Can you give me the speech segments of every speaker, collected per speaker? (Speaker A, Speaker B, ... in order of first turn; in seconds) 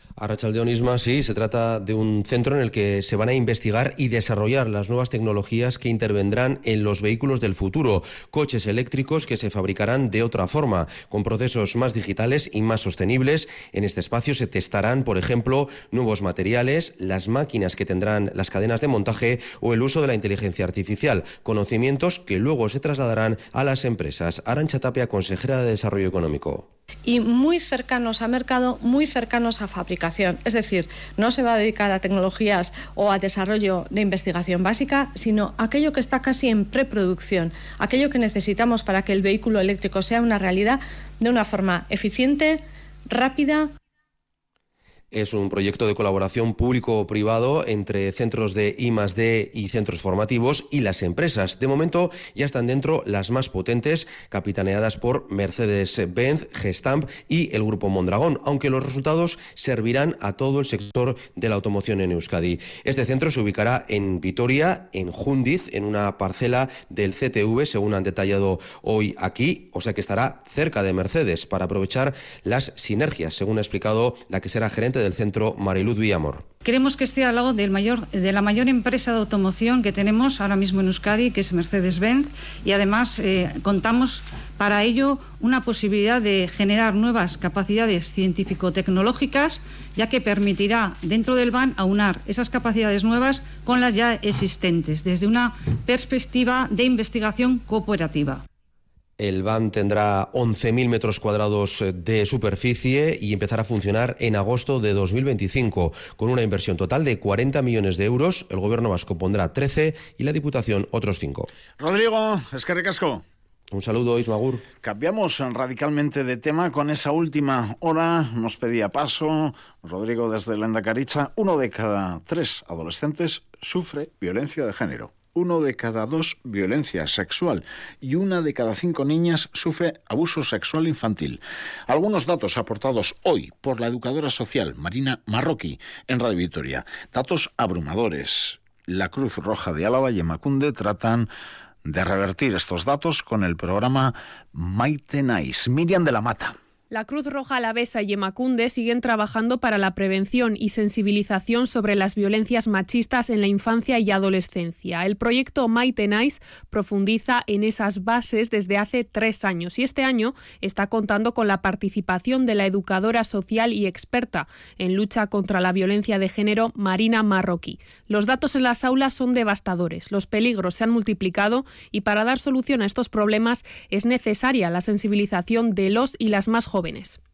Speaker A: 0.2-26.7, 45.1-76.5, 99.2-111.5, 113.7-114.6
Speaker B: 27.1-43.7
Speaker C: 76.6-98.4
Speaker D: 111.8-113.2, 114.8-141.3, 141.8-146.6
Speaker E: 146.9-177.2